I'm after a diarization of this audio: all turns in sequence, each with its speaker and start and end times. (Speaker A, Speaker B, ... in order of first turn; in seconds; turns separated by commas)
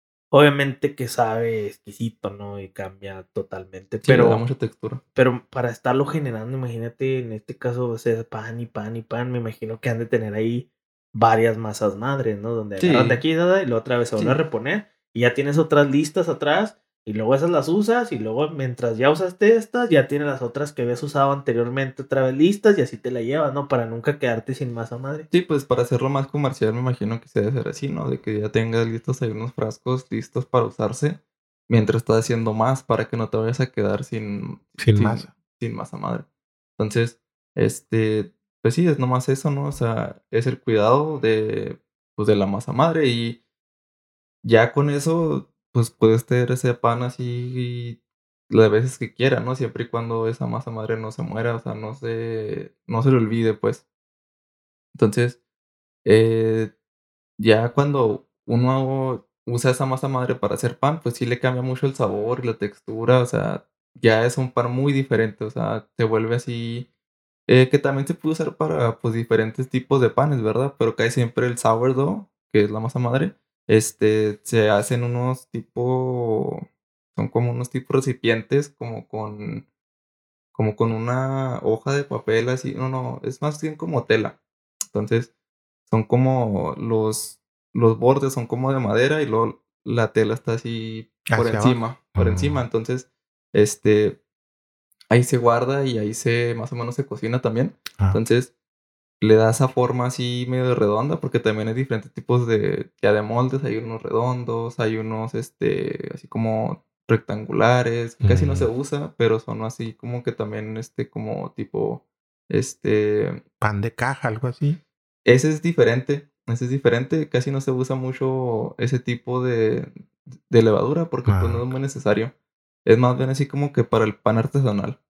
Speaker A: 0.3-4.4, Speaker B: 4.0-5.0, Speaker A: 5.2-25.3, Speaker B: 12.8-13.2, Speaker B: 25.3-36.2, Speaker C: 34.8-35.3, Speaker B: 36.8-43.4, Speaker B: 44.4-48.0, Speaker B: 48.5-53.8, Speaker B: 54.9-55.4, Speaker B: 56.0-56.7, Speaker B: 57.4-66.9, Speaker B: 67.5-79.7, Speaker B: 80.5-84.4, Speaker B: 84.9-85.3, Speaker B: 85.9-94.2, Speaker C: 91.2-92.6, Speaker B: 95.1-98.5, Speaker B: 99.2-113.4, Speaker C: 108.2-108.7, Speaker C: 113.6-114.8, Speaker B: 115.2-122.3, Speaker C: 121.3-121.7, Speaker B: 122.8-125.0